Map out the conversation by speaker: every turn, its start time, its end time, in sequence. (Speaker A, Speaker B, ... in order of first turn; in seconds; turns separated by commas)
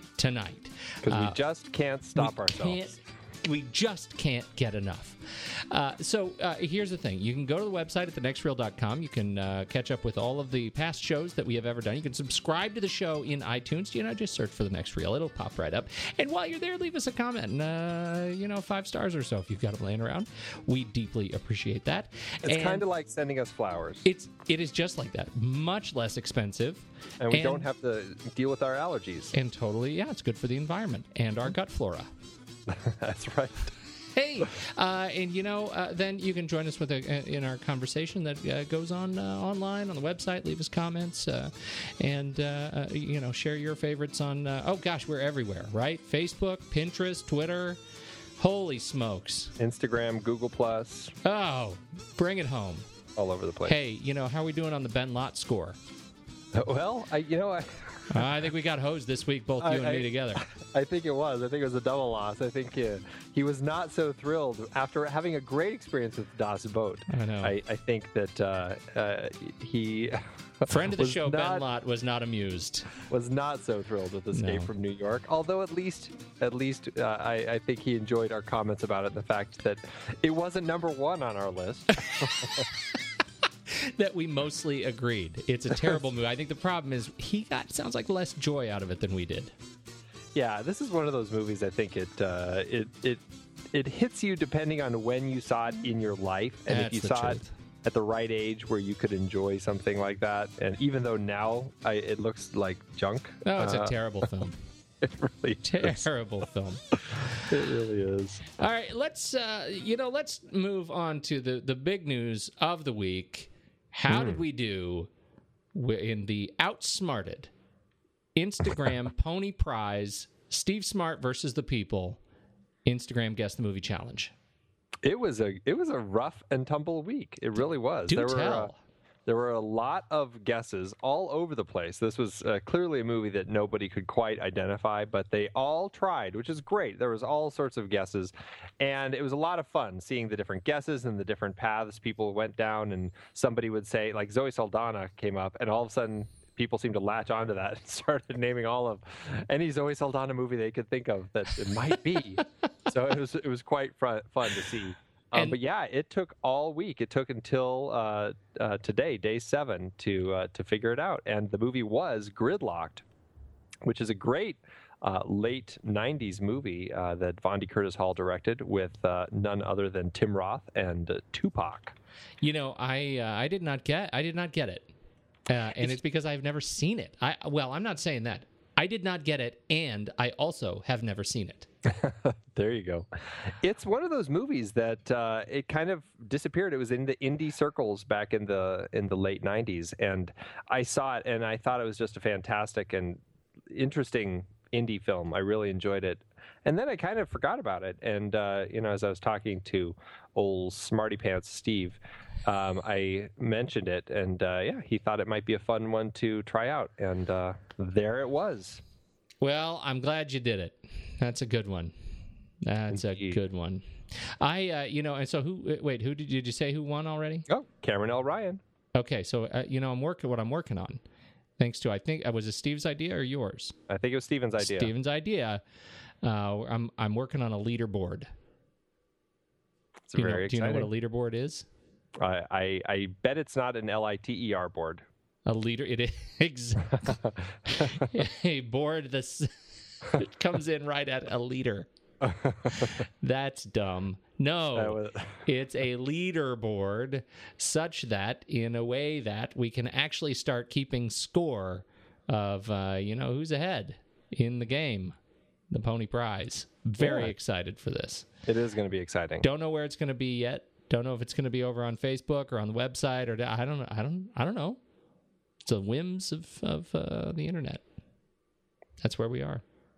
Speaker A: 0.2-1.4, Speaker B: 1.0-2.8, Speaker A: 2.1-22.8, Speaker B: 22.4-24.0, Speaker A: 24.0-27.6, Speaker B: 27.2-29.3, Speaker A: 29.3-32.1, Speaker B: 32.7-33.7, Speaker A: 34.1-47.8, Speaker A: 48.4-49.5, Speaker B: 49.6-51.1, Speaker A: 51.2-52.9, Speaker B: 53.1-53.7, Speaker A: 53.6-55.8, Speaker B: 56.5-58.5, Speaker A: 58.1-60.4, Speaker B: 59.6-71.6, Speaker A: 67.1-67.5, Speaker A: 70.7-72.9, Speaker B: 73.1-82.7, Speaker A: 74.3-74.7, Speaker A: 82.1-82.4, Speaker A: 83.7-89.5, Speaker B: 90.3-93.2, Speaker B: 93.7-104.3, Speaker A: 96.7-97.5, Speaker A: 103.4-104.5, Speaker B: 105.0-106.0, Speaker A: 105.6-107.4, Speaker B: 107.3-108.4, Speaker A: 108.6-115.1, Speaker B: 114.1-114.4, Speaker A: 115.7-117.5, Speaker A: 118.3-122.2, Speaker A: 122.8-124.3, Speaker B: 125.0-128.7, Speaker A: 128.1-128.8, Speaker B: 129.2-163.0, Speaker B: 163.8-171.9, Speaker A: 172.4-174.9, Speaker A: 175.5-181.7, Speaker B: 181.9-193.2, Speaker B: 193.7-208.8, Speaker A: 209.4-211.9, Speaker A: 212.6-217.4, Speaker B: 212.9-213.3, Speaker B: 217.5-218.6, Speaker A: 218.9-221.0, Speaker A: 221.6-223.8, Speaker B: 223.9-224.9, Speaker A: 224.6-225.6, Speaker A: 226.2-228.3, Speaker B: 230.1-230.9, Speaker A: 230.2-231.7, Speaker B: 232.2-235.0, Speaker A: 235.4-237.2, Speaker B: 237.2-238.0, Speaker A: 237.7-239.5, Speaker A: 240.0-241.9, Speaker B: 242.2-242.9, Speaker A: 242.7-255.2, Speaker B: 244.8-245.3, Speaker A: 255.7-258.3, Speaker B: 257.0-257.3, Speaker B: 258.5-259.4, Speaker A: 259.4-264.8, Speaker A: 265.6-267.8, Speaker A: 269.0-269.6